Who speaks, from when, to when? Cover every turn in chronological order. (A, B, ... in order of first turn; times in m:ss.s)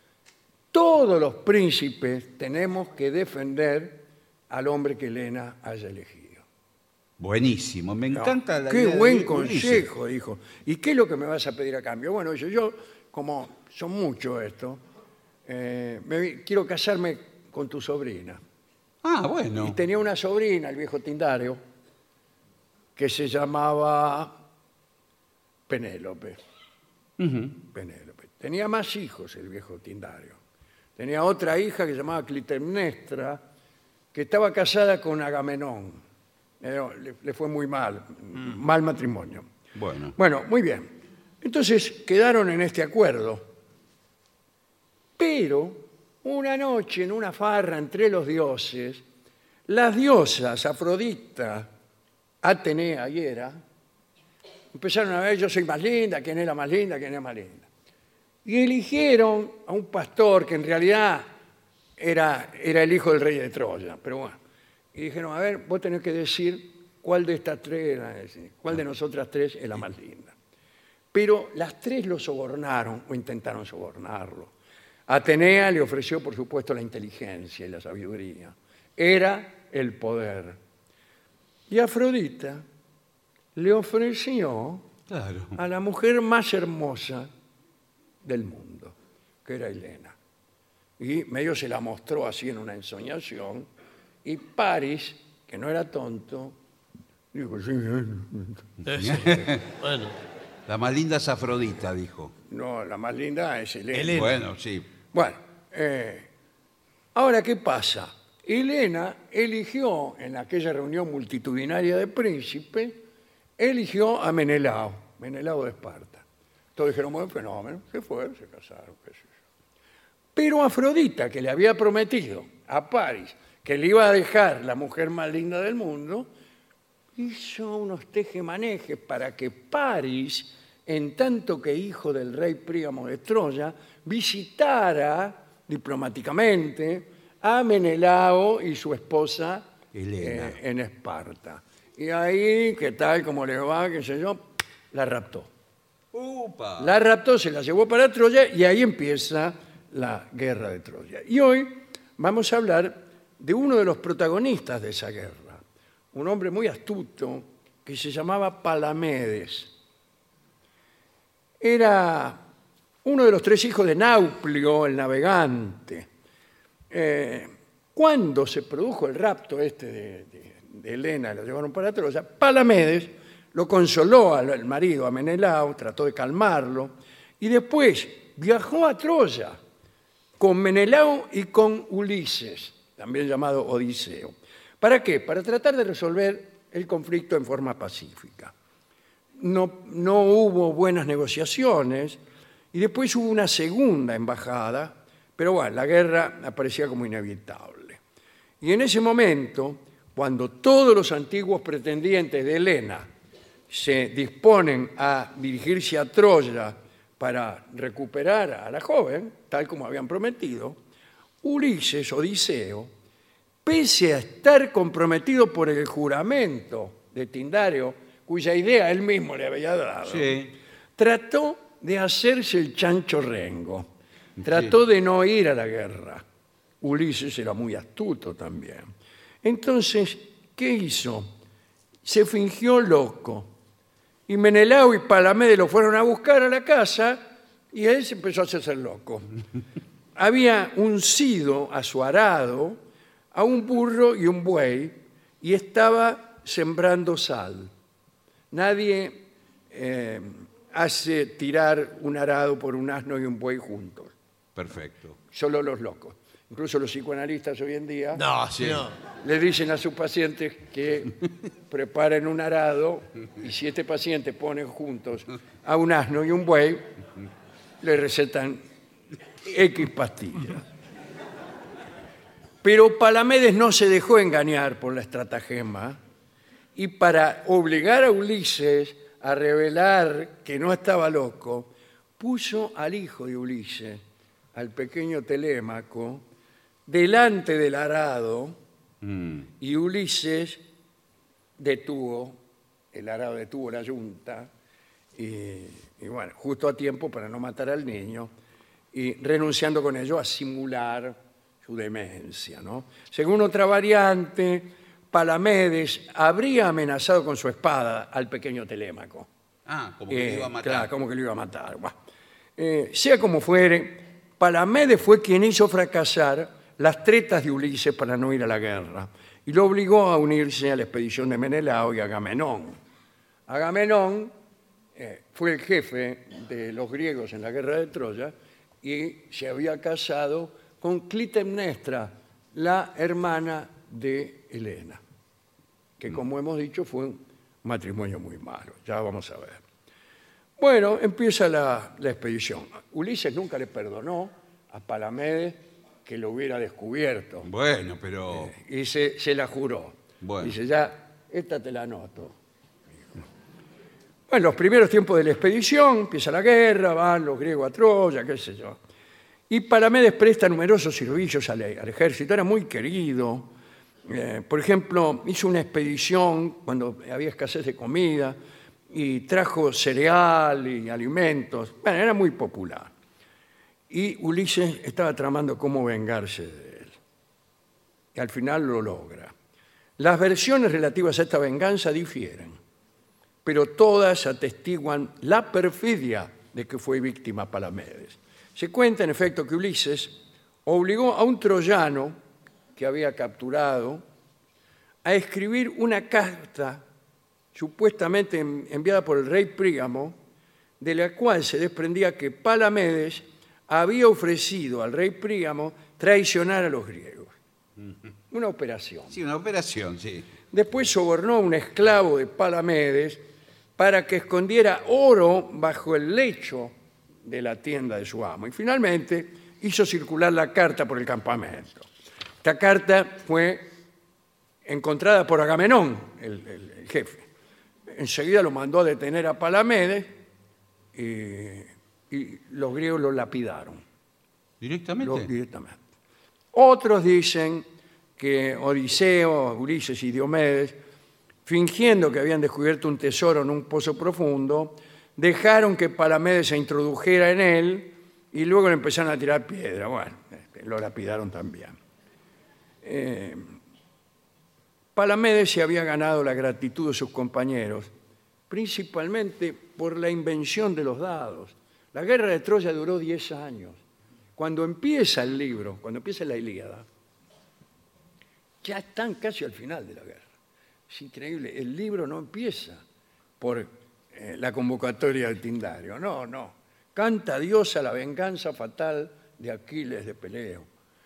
0:00.7-0:06.4 A
0:07.2-0:09.9 B
0:08.1-0:14.8 A
0:15.4-0:18.4 A
0:19.0-0:19.8 B
0:19.6-0:21.6 A
0:23.0-0:24.4 A
0:25.7-0:26.4 A
0:27.2-0:27.6 B
0:27.7-0:30.4 A
0:31.0-0:33.4 A
0:34.1-0:36.0 A
0:36.6-0:39.5 A
0:39.7-0:40.1 B
0:40.2-0:40.9 A
0:41.4-0:43.5 A
0:45.2-0:49.0 A
0:49.7-0:51.7 A
0:52.4-0:53.6 A
0:54.7-0:57.7 A
0:58.4-1:01.3 A
1:02.0-1:04.4 A
1:04.9-1:10.3 A
1:11.1-1:14.5 A
1:15.1-1:20.6 A
1:21.7-1:22.6 A
1:23.6-1:24.8 A
1:25.1-1:25.6 B
1:25.6-1:27.3 A
1:28.2-1:30.2 A
1:31.0-1:33.7 A
1:34.2-1:36.6 A
1:37.3-1:38.6 A
1:38.8-1:40.2 C
1:39.0-1:39.6 B
1:40.7-1:42.3 B
1:42.5-1:44.3 A
1:43.9-1:44.4 C
1:44.1-1:44.9 B
1:45.1-1:46.3 A
1:47.1-1:53.0 A
1:53.6-1:56.2 A
1:56.8-1:59.3 A
2:00.3-2:06.3 A
2:07.2-2:25.5 A
2:19.9-2:20.6 B
2:26.1-2:26.9 B
2:26.8-2:35.6 A
2:36.1-2:39.7 A
2:41.6-2:42.4 A
2:43.0-2:46.1 A
2:46.9-2:59.6 A
3:00.4-3:08.5 A
3:09.4-3:12.2 A
3:12.7-3:18.0 A
3:18.6-3:23.1 A
3:23.7-3:30.8 A
3:31.4-3:32.9 A
3:33.6-3:40.4 A
3:40.0-3:40.5 B
3:41.0-3:43.9 A
3:44.4-3:44.7 B
3:44.4-3:46.2 A
3:46.8-3:48.9 A
3:49.4-3:51.3 A
3:52.0-3:53.5 A
3:54.3-3:59.3 A
4:00.2-4:02.8 A
4:03.3-4:07.7 A
4:08.5-4:14.1 A
4:14.6-4:15.2 B
4:15.3-4:18.2 A
4:18.1-4:19.0 C
4:18.6-4:18.9 B
4:19.2-4:21.2 A
4:21.7-4:26.9 A
4:27.8-4:28.6 A
4:29.4-4:30.6 A
4:32.6-4:36.0 A
4:36.7-4:44.0 A
4:44.6-4:46.2 A
4:46.9-4:48.6 A
4:49.0-4:49.4 B
4:49.6-4:50.6 A
4:51.6-4:52.4 A
4:52.9-4:54.5 A
4:55.2-4:58.3 A
4:58.9-5:09.3 A
5:09.6-5:10.9 B
5:10.1-5:11.9 A
5:12.6-5:22.8 A
5:23.5-5:24.3 A
5:25.0-5:35.0 A
5:36.0-5:39.6 A
5:40.6-5:47.5 A
5:47.4-5:48.5 B
5:48.3-5:52.4 A
5:50.2-5:50.6 B
5:54.3-5:58.8 A
5:59.5-6:03.5 A
6:04.0-6:08.4 A
6:08.9-6:12.9 A
6:13.9-6:16.9 A
6:18.1-6:19.3 A
6:20.0-6:22.6 A
6:23.4-6:32.2 A
6:32.8-6:34.0 A
6:35.0-6:36.8 A
6:37.5-6:40.2 A
6:40.8-6:47.3 A
6:48.3-6:49.2 A
6:49.1-6:50.3 B
6:50.5-6:53.2 A
6:53.8-7:01.9 A
7:02.4-7:03.7 A
7:04.6-7:07.3 A
7:07.9-7:10.1 A
7:10.9-7:13.8 A
7:14.6-7:15.3 B
7:15.0-7:15.8 A
7:16.5-7:17.6 A
7:18.2-7:20.8 A
7:21.4-7:31.8 A
7:32.8-7:33.5 A
7:34.9-7:37.9 A
7:38.5-7:43.8 A
7:44.4-7:46.9 A
7:48.6-7:50.3 A
7:50.9-7:52.8 A
7:53.4-8:00.7 A